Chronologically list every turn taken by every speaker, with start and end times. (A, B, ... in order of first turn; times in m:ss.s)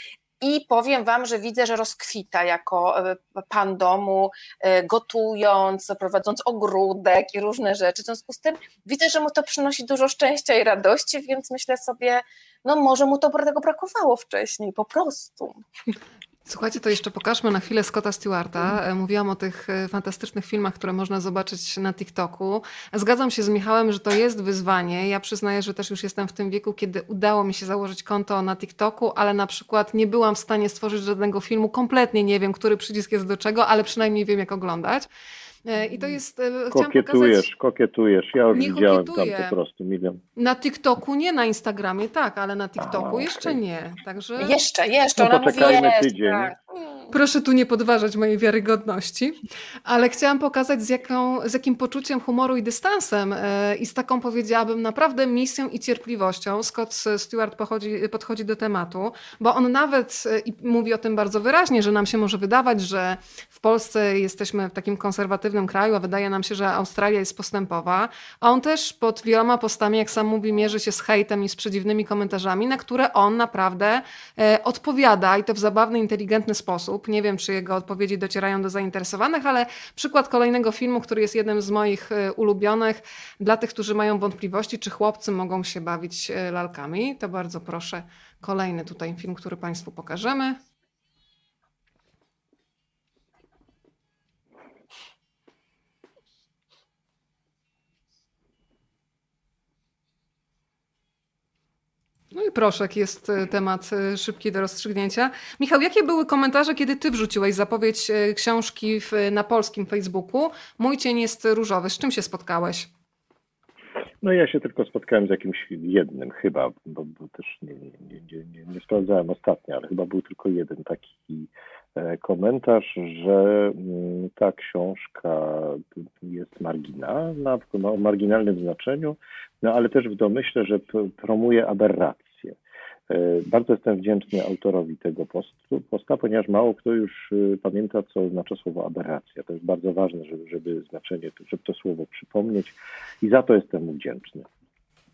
0:00.4-0:15.6 A
0:16.4-0:35.1 B
0:35.7-0:37.5 B
0:36.7-0:40.2 C
0:38.5-0:39.6 B
0:40.4-0:44.5 B
0:42.8-0:43.6 C
0:44.4-0:47.1 A
0:45.2-0:46.5 C
0:47.1-1:30.6 B
1:42.3-1:52.9 B
1:54.2-2:12.6 C
2:13.1-2:24.5 C